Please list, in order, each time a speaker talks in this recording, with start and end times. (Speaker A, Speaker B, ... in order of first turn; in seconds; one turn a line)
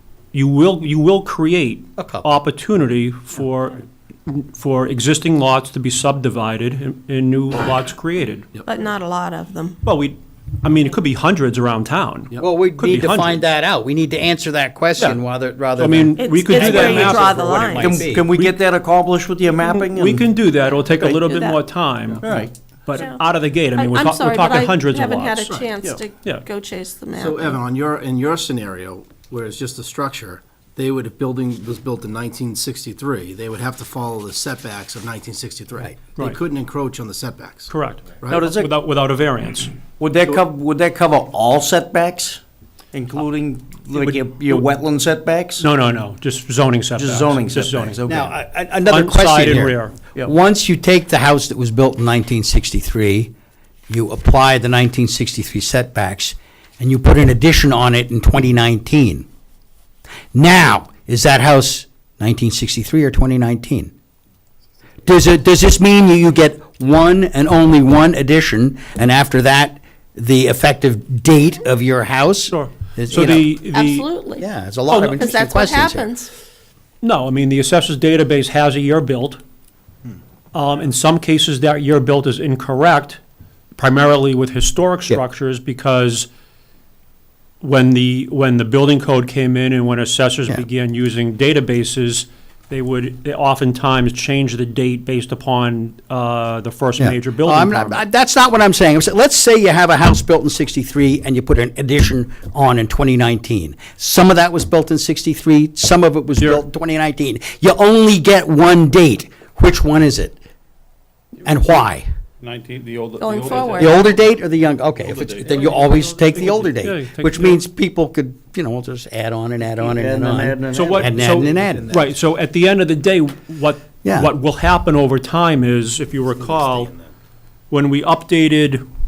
Speaker A: 0.3-8.6
Speaker B: 2.0-2.2
Speaker C: 8.7-9.8
Speaker A: 9.8-13.4
Speaker B: 12.4-18.2
Speaker A: 15.8-17.8
Speaker C: 16.2-18.0
Speaker D: 17.8-20.3
Speaker A: 19.6-25.6
Speaker C: 20.6-21.6
Speaker D: 22.2-22.5
Speaker C: 22.9-23.2
Speaker C: 23.7-27.6
Speaker E: 27.1-38.5
Speaker A: 37.7-39.8
Speaker D: 38.3-38.8
Speaker D: 40.0-42.4
Speaker D: 42.9-45.6
Speaker A: 43.9-44.7
Speaker A: 45.6-48.0
Speaker D: 47.0-48.4
Speaker B: 48.0-53.3
Speaker A: 48.9-49.9
Speaker B: 53.9-59.3
Speaker B: 60.3-63.9
Speaker B: 65.0-73.5
Speaker A: 72.5-74.1
Speaker C: 73.5-76.3
Speaker B: 74.4-76.1
Speaker A: 77.0-79.4
Speaker A: 80.5-83.2
Speaker A: 83.8-86.3
Speaker A: 87.6-98.0
Speaker B: 97.0-110.4
Speaker A: 106.4-106.6
Speaker B: 111.4-112.1
Speaker F: 112.4-114.1
Speaker C: 113.2-114.0
Speaker B: 113.6-122.0
Speaker F: 115.0-116.3
Speaker A: 116.3-117.6
Speaker D: 119.8-121.7
Speaker A: 120.7-126.9
Speaker E: 121.6-122.1
Speaker B: 124.0-124.3
Speaker E: 126.4-126.9
Speaker A: 127.7-128.8